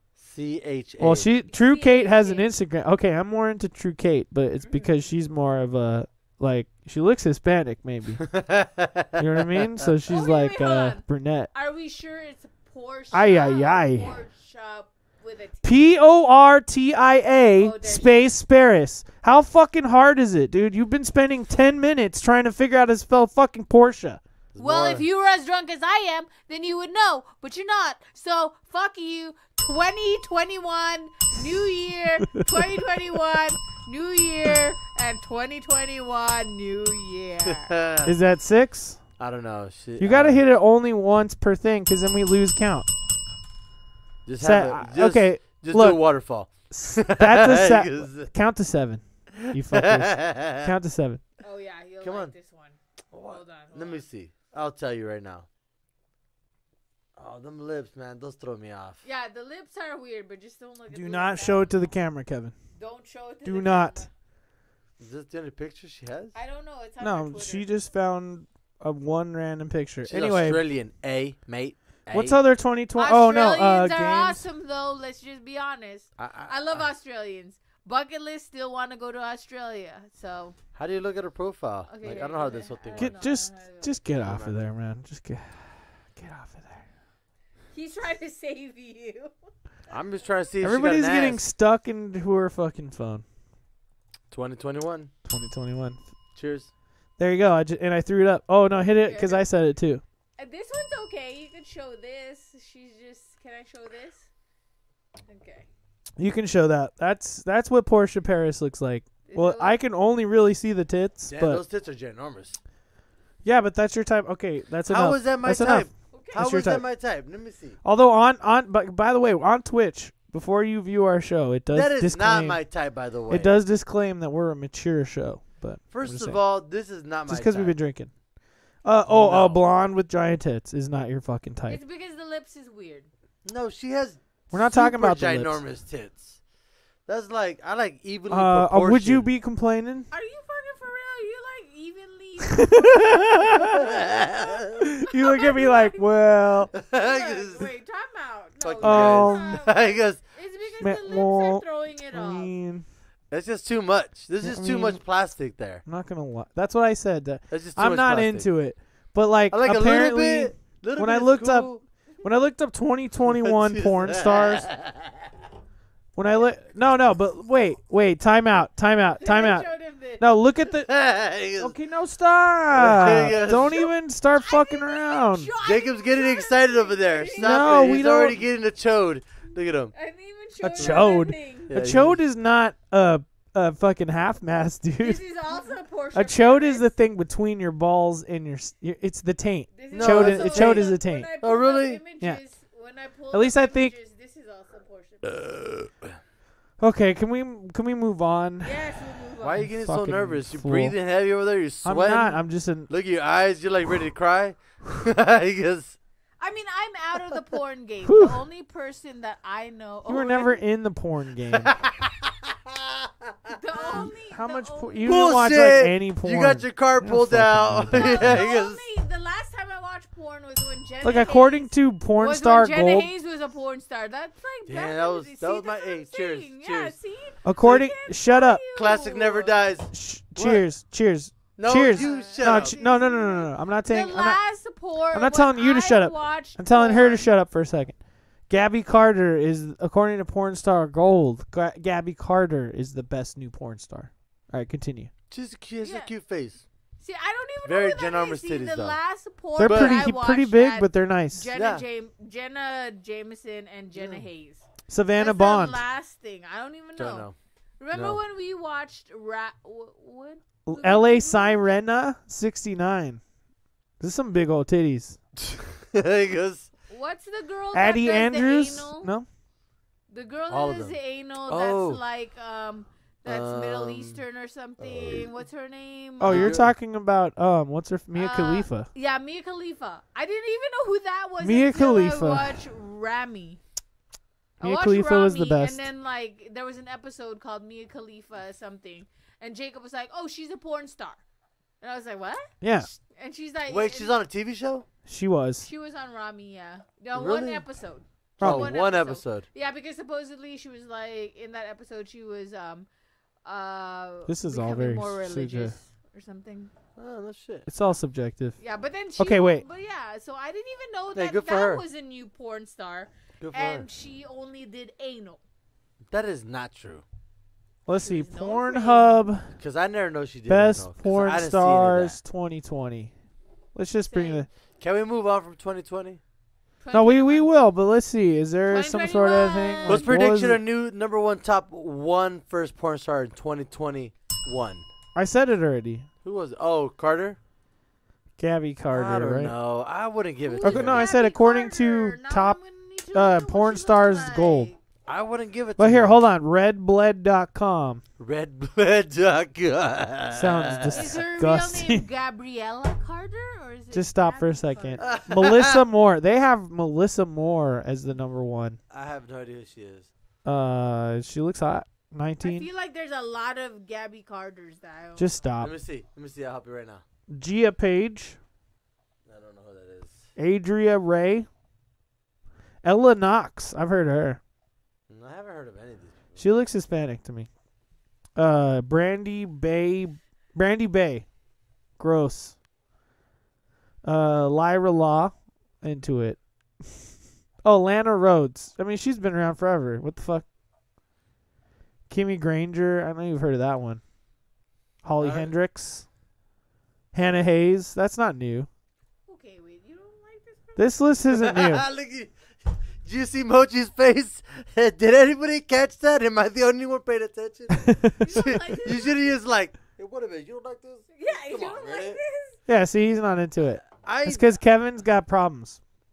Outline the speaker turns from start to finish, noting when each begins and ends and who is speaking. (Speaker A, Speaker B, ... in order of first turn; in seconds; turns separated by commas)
Speaker A: 0.2-1.3, Speaker B: 1.0-8.3, Speaker C: 1.5-2.5, Speaker A: 8.2-9.9, Speaker B: 9.2-11.5, Speaker C: 10.1-15.7, Speaker B: 13.1-14.1, Speaker B: 15.6-24.2, Speaker C: 17.6-18.3, Speaker A: 24.5-25.0, Speaker C: 24.6-37.7, Speaker A: 37.4-38.1, Speaker B: 38.0-39.0, Speaker A: 39.2-40.4, Speaker B: 40.0-42.9, Speaker A: 44.2-48.3, Speaker B: 44.4-46.0, Speaker B: 46.7-51.2, Speaker A: 49.4-50.7, Speaker C: 51.4-54.0, Speaker A: 52.0-52.3, Speaker A: 53.1-55.5, Speaker A: 57.1-59.0, Speaker C: 59.0-61.7, Speaker B: 60.9-62.5, Speaker C: 62.8-64.1, Speaker B: 63.4-64.0, Speaker A: 65.0-66.3, Speaker C: 66.3-67.7, Speaker B: 67.0-70.6, Speaker A: 70.0-72.4, Speaker B: 72.1-74.4, Speaker C: 73.0-80.5, Speaker A: 76.2-76.9, Speaker A: 80.7-83.2, Speaker C: 81.9-84.0, Speaker B: 83.0-86.8, Speaker A: 84.2-84.6, Speaker C: 87.7-89.3, Speaker A: 89.9-91.4, Speaker B: 90.6-93.2, Speaker A: 94.3-95.1, Speaker B: 95.2-96.0, Speaker A: 96.3-96.7, Speaker B: 97.2-100.0, Speaker C: 99.0-99.5, Speaker C: 100.4-104.2, Speaker C: 105.3-105.7, Speaker B: 106.2-111.6, Speaker C: 109.3-109.8, Speaker A: 111.3-112.6, Speaker B: 113.4-116.8, Speaker A: 114.9-117.8, Speaker C: 116.1-116.4, Speaker B: 117.8-122.6, Speaker A: 121.7-123.6, Speaker B: 123.3-126.4, Speaker A: 125.9-127.7, Speaker B: 127.3-128.1, Speaker B: 128.8-131.8, Speaker A: 129.1-129.6, Speaker C: 131.7-133.1, Speaker A: 133.4-136.4, Speaker B: 134.5-135.6, Speaker A: 137.1-139.3, Speaker B: 138.3-140.1, Speaker C: 140.1-146.1, Speaker B: 142.5-143.9, Speaker A: 143.5-144.9, Speaker B: 144.8-146.7, Speaker A: 146.7-147.7, Speaker C: 146.8-152.5, Speaker A: 148.6-150.2, Speaker B: 148.8-149.6, Speaker B: 150.8-152.8, Speaker A: 153.3-155.8, Speaker B: 154.4-155.0, Speaker B: 155.9-164.7, Speaker A: 157.5-158.5, Speaker A: 159.5-161.8, Speaker A: 163.2-165.3, Speaker B: 166.2-170.9, Speaker C: 169.2-170.2, Speaker A: 170.8-171.8, Speaker B: 171.6-175.5, Speaker A: 172.7-173.9, Speaker C: 174.3-177.8, Speaker A: 175.6-179.9, Speaker B: 177.4-178.4, Speaker C: 179.9-181.7, Speaker B: 180.6-185.2, Speaker A: 180.8-181.0, Speaker A: 181.7-182.2, Speaker C: 185.0-186.9, Speaker B: 186.1-191.3, Speaker C: 189.7-195.4, Speaker A: 189.9-192.0, Speaker B: 193.3-193.9, Speaker A: 195.2-196.2, Speaker B: 196.8-198.7, Speaker C: 198.6-199.6, Speaker A: 199.4-205.9, Speaker B: 199.6-200.9, Speaker B: 201.8-202.9, Speaker C: 206.4-210.6, Speaker B: 208.0-208.4, Speaker B: 210.1-211.7, Speaker A: 211.6-214.1, Speaker C: 213.5-215.2, Speaker B: 213.9-218.4, Speaker A: 215.0-218.8, Speaker C: 217.9-229.6, Speaker B: 221.0-223.1, Speaker A: 224.7-226.9, Speaker B: 227.4-228.6, Speaker A: 228.7-230.6, Speaker B: 229.9-234.4, Speaker A: 231.6-232.8, Speaker C: 231.9-237.3, Speaker B: 235.1-237.9, Speaker B: 238.5-245.1, Speaker A: 245.3-246.6, Speaker C: 245.8-246.1, Speaker C: 247.0-254.6, Speaker A: 247.6-249.0, Speaker B: 249.6-251.4, Speaker A: 249.6-250.0, Speaker A: 251.5-251.8, Speaker A: 253.9-254.2, Speaker B: 254.9-255.8, Speaker C: 255.2-257.3, Speaker A: 257.0-257.3, Speaker C: 257.8-261.6, Speaker A: 257.9-258.2, Speaker B: 260.6-263.2, Speaker B: 264.0-265.2, Speaker A: 265.4-266.7, Speaker C: 266.9-269.1, Speaker B: 267.7-269.3, Speaker C: 270.1-276.6, Speaker A: 270.5-270.9, Speaker A: 271.5-272.0, Speaker A: 273.2-274.2, Speaker A: 274.8-275.2, Speaker B: 276.2-278.9, Speaker A: 276.2-276.7, Speaker C: 278.1-283.6, Speaker B: 281.4-282.6, Speaker C: 284.6-291.2, Speaker B: 284.6-285.9, Speaker C: 291.8-294.2, Speaker B: 292.6-292.9, Speaker A: 293.7-294.9, Speaker B: 295.1-295.7, Speaker C: 295.6-302.9, Speaker A: 297.1-297.6, Speaker B: 298.4-298.7, Speaker A: 298.4-299.4, Speaker C: 303.4-306.7, Speaker B: 304.3-305.7, Speaker A: 306.9-307.7, Speaker B: 307.7-308.6, Speaker C: 308.6-315.4, Speaker B: 309.2-309.6, Speaker A: 311.1-311.8, Speaker A: 313.4-313.9, Speaker A: 316.1-317.0, Speaker B: 317.9-319.5, Speaker C: 317.9-319.2, Speaker A: 319.6-322.2, Speaker B: 320.5-323.1, Speaker B: 323.7-324.5, Speaker C: 324.1-324.4, Speaker A: 324.8-326.2, Speaker C: 326.8-327.5, Speaker B: 326.9-330.6, Speaker C: 328.7-330.1, Speaker A: 329.9-334.9, Speaker B: 335.1-336.1, Speaker A: 336.2-337.4, Speaker B: 338.4-339.5, Speaker A: 338.9-341.1, Speaker C: 340.4-344.8, Speaker B: 340.6-342.6, Speaker B: 343.1-344.7, Speaker A: 345.1-346.2, Speaker B: 345.8-348.0, Speaker A: 348.2-351.2, Speaker B: 350.3-352.0, Speaker C: 350.9-355.2, Speaker B: 353.9-358.8, Speaker A: 355.0-355.8, Speaker A: 358.9-360.1, Speaker B: 360.4-362.7, Speaker C: 362.4-365.4, Speaker B: 365.2-365.7, Speaker A: 365.6-367.0, Speaker B: 367.3-368.4, Speaker A: 369.2-370.2, Speaker B: 370.4-371.5, Speaker B: 372.8-374.4, Speaker A: 375.1-376.4, Speaker B: 376.4-377.5, Speaker B: 378.4-381.2, Speaker B: 382.0-382.5, Speaker B: 384.0-387.1, Speaker B: 387.6-390.4, Speaker B: 392.1-394.0, Speaker B: 395.0-396.0, Speaker A: 395.2-395.5, Speaker B: 397.1-398.7, Speaker C: 399.3-401.0, Speaker B: 400.8-401.9, Speaker A: 401.3-412.2, Speaker B: 407.7-408.5, Speaker C: 408.2-409.3, Speaker C: 411.1-412.6, Speaker B: 412.7-415.8, Speaker A: 413.8-414.6